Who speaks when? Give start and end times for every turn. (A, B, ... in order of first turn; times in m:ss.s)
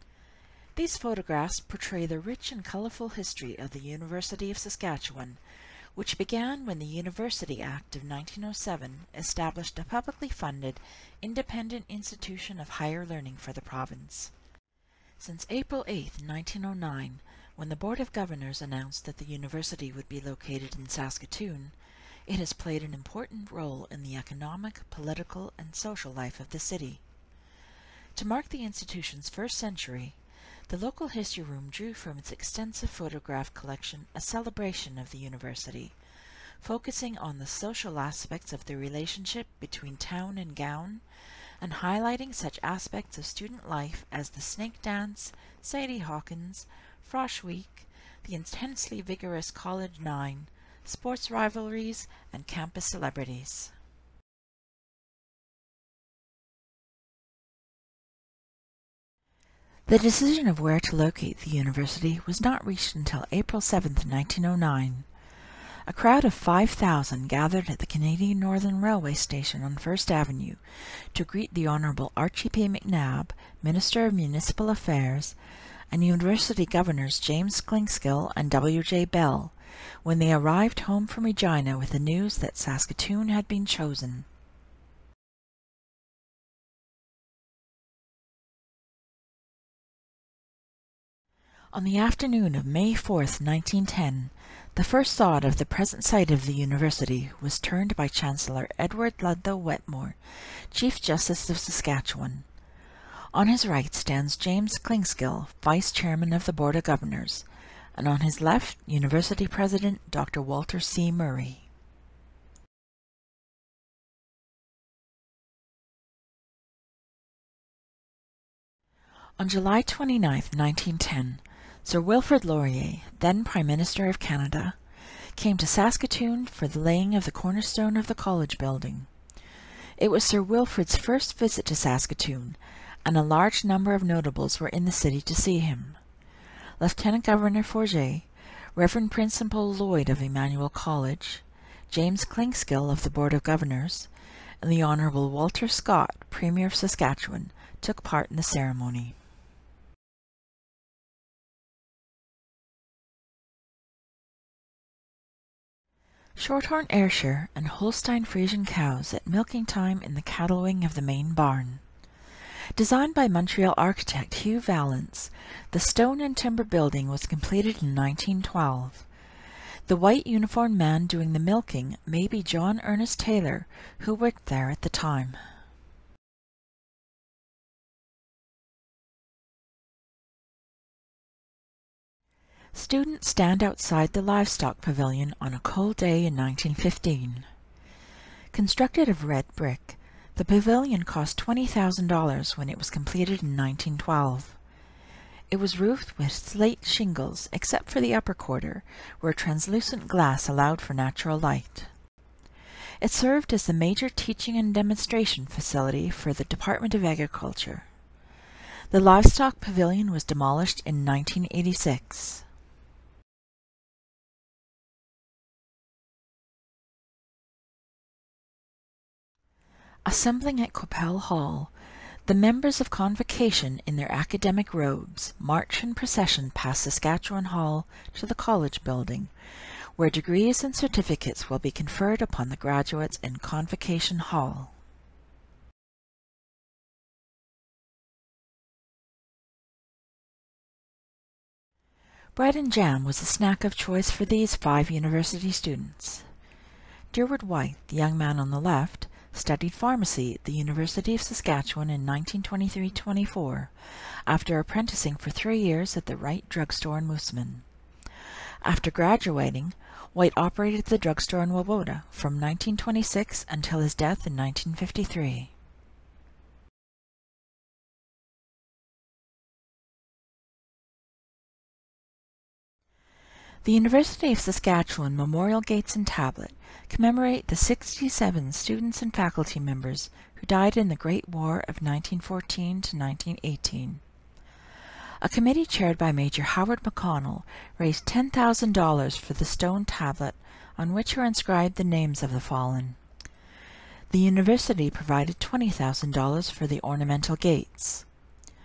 0:00.8-0:05.4 A
0:06.0-0:14.3 A
0:15.2-0:21.8 A
0:22.3-0:27.0 A
0:28.2-0:30.2 A
0:30.7-0:36.0 A
0:36.6-0:41.0 A
0:41.6-0:53.7 A
0:59.9-1:05.1 A
1:05.9-1:10.6 A
1:11.1-1:15.4 A
1:15.9-1:24.3 A
1:31.7-1:40.2 A
1:40.7-1:42.4 A
1:43.3-1:51.7 A
1:59.4-2:04.8 A
2:05.4-2:09.1 A
2:10.0-2:16.0 A
2:16.8-2:24.1 A
2:24.6-2:29.2 A
2:36.4-2:41.8 A
2:42.8-2:49.1 A
2:49.9-2:55.4 A
3:02.7-3:07.5 A
3:08.5-3:14.6 A
3:15.5-3:21.9 A
3:23.0-3:27.9 A
3:28.9-3:32.4 A
3:40.1-3:41.7 A
3:42.3-3:49.3 A
3:50.0-3:54.7 A
4:02.4-4:06.3 A
4:07.1-4:13.7 A
4:14.3-4:17.6 A
4:18.6-4:25.5 A
4:33.6-4:44.0 A
4:45.2-4:53.0 A
4:54.1-4:58.1 A